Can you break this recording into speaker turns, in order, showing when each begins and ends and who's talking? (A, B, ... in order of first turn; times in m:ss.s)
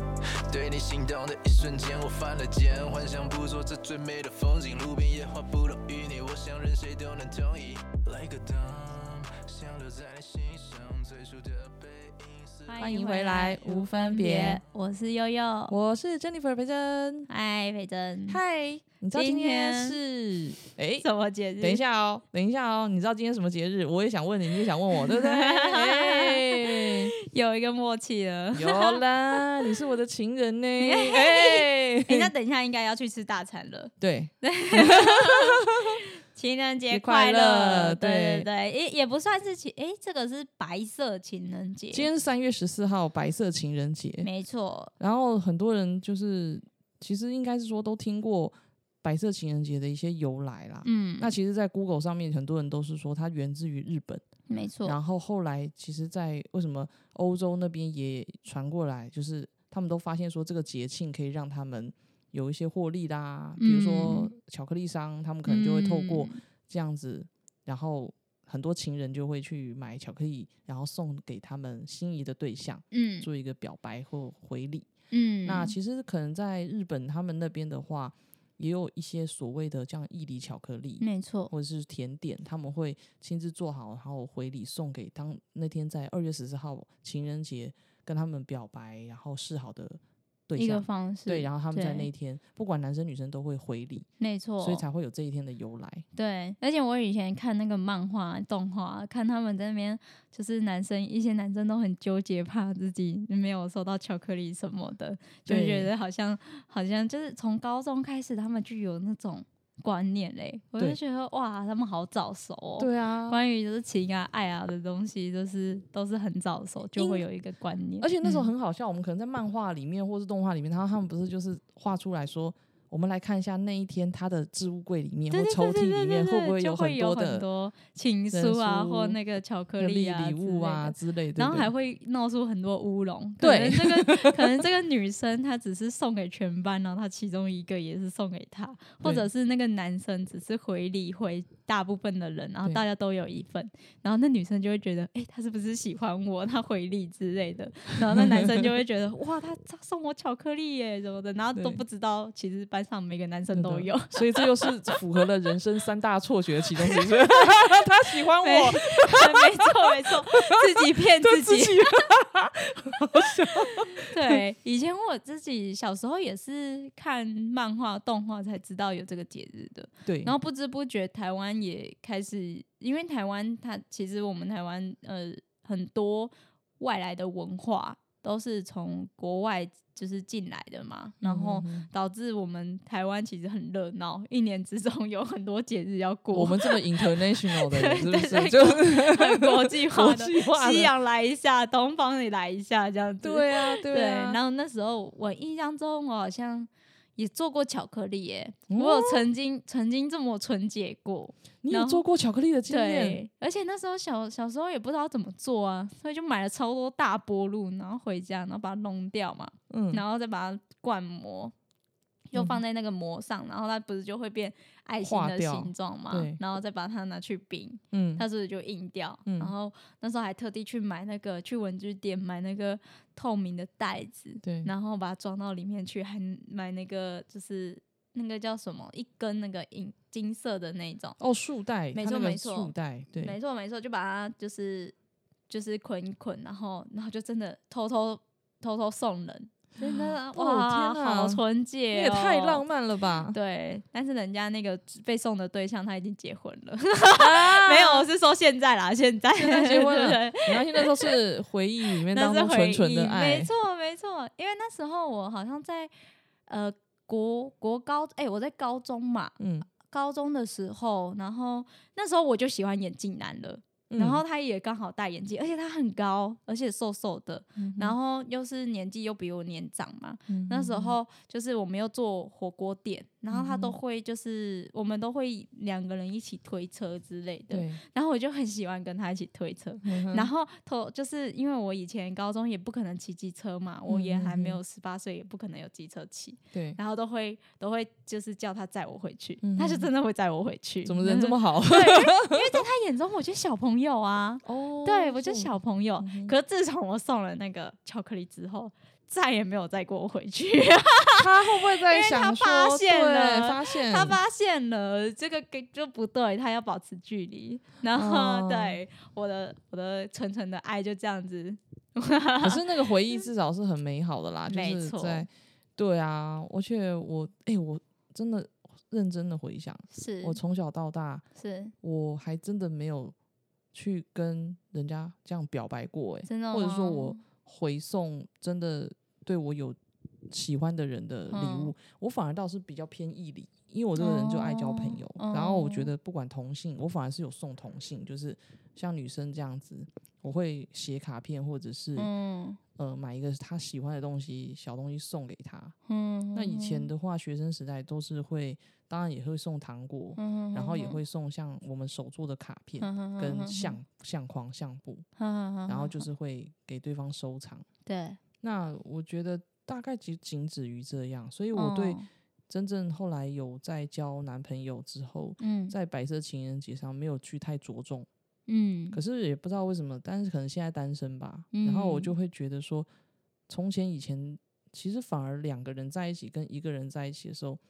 0:00.5-0:12.8 A
0:12.7-0:15.8 B
0:12.8-0:14.6 C
0:15.7-0:17.3 C
0:17.3-0:18.4 B
0:18.3-0:21.1 C
0:19.1-0:20.0 B
0:21.0-0:21.8 B
0:21.6-0:27.1 C
0:24.9-0:29.4 B
0:28.5-0:32.3 C
0:30.8-0:42.1 B
0:34.0-0:36.0 C
0:36.9-0:38.5 C
0:41.9-0:44.3 C
0:44.2-0:44.9 B
0:45.0-0:54.2 C
0:50.8-0:51.3 B
0:54.5-0:55.0 B
0:54.8-1:14.9 C
1:03.6-1:04.3 B
1:05.4-1:06.4 B
1:12.9-1:13.3 B
1:15.1-1:15.8 B
1:15.4-1:34.1 C
1:21.0-1:21.5 B
1:30.6-1:32.1 B
1:34.2-1:34.8 B
1:34.6-1:36.0 C
1:36.1-1:58.5 B
1:45.5-1:45.9 C
1:52.8-1:53.4 C
1:57.0-1:57.2 C
1:58.0-2:07.4 C
2:05.3-2:34.5 B
2:08.3-2:09.2 C
2:09.8-2:11.7 C
2:13.4-2:14.6 C
2:28.1-2:28.6 C
2:31.5-2:31.8 C
2:33.5-2:44.4 C
2:36.8-2:42.0 B
2:43.2-3:22.0 B
2:50.0-2:50.3 C
3:01.2-3:01.9 C
3:06.3-3:10.9 C
3:13.2-3:14.4 C
3:18.7-3:19.2 C
3:21.6-3:23.2 C
3:22.7-3:31.5 B
3:29.7-3:30.0 C
3:32.3-3:51.2 B
3:32.3-3:32.6 C
3:35.0-3:36.4 C
3:37.9-3:38.2 C
3:39.2-3:39.5 C
3:44.4-3:44.7 C
3:51.2-3:53.4 C
3:51.9-3:54.9 B
3:55.5-4:02.6 B
3:59.8-4:03.4 C
4:03.3-4:11.2 B
4:07.2-4:08.1 C
4:09.4-4:13.5 C
4:11.9-4:15.9 B
4:16.5-5:12.9 B
4:19.4-4:19.7 C
4:23.9-4:24.2 C
4:27.6-4:28.0 C
4:30.3-4:31.0 C
4:33.3-4:33.8 C
4:37.5-4:37.8 C
4:39.8-4:40.3 C
4:43.9-4:44.6 C
4:46.5-4:46.8 C
4:49.4-4:49.9 C
4:50.8-4:52.6 C
4:54.4-4:56.3 C
5:01.2-5:04.2 C
5:07.9-5:08.8 C
5:12.4-5:21.2 C
5:14.5-5:15.3 B
5:19.9-5:20.4 B
5:21.3-5:21.7 B
5:21.8-5:23.1 C
5:23.7-5:29.8 C
5:26.2-5:27.2 B
5:30.3-5:42.1 C
5:31.3-5:31.7 B
5:34.0-5:35.9 B
5:42.0-5:42.6 B
5:42.8-5:45.7 C
5:45.8-5:46.9 B
5:46.3-5:55.0 C
5:50.2-5:51.0 B
5:52.8-5:53.8 B
5:55.2-5:56.1 B
5:55.7-5:57.7 C
5:57.8-5:58.2 B
5:58.4-6:08.1 C
6:01.5-6:02.1 B
6:05.4-6:05.7 B
6:08.5-6:09.0 B
6:08.9-6:12.9 C
6:11.5-6:12.1 B
6:13.5-6:17.6 C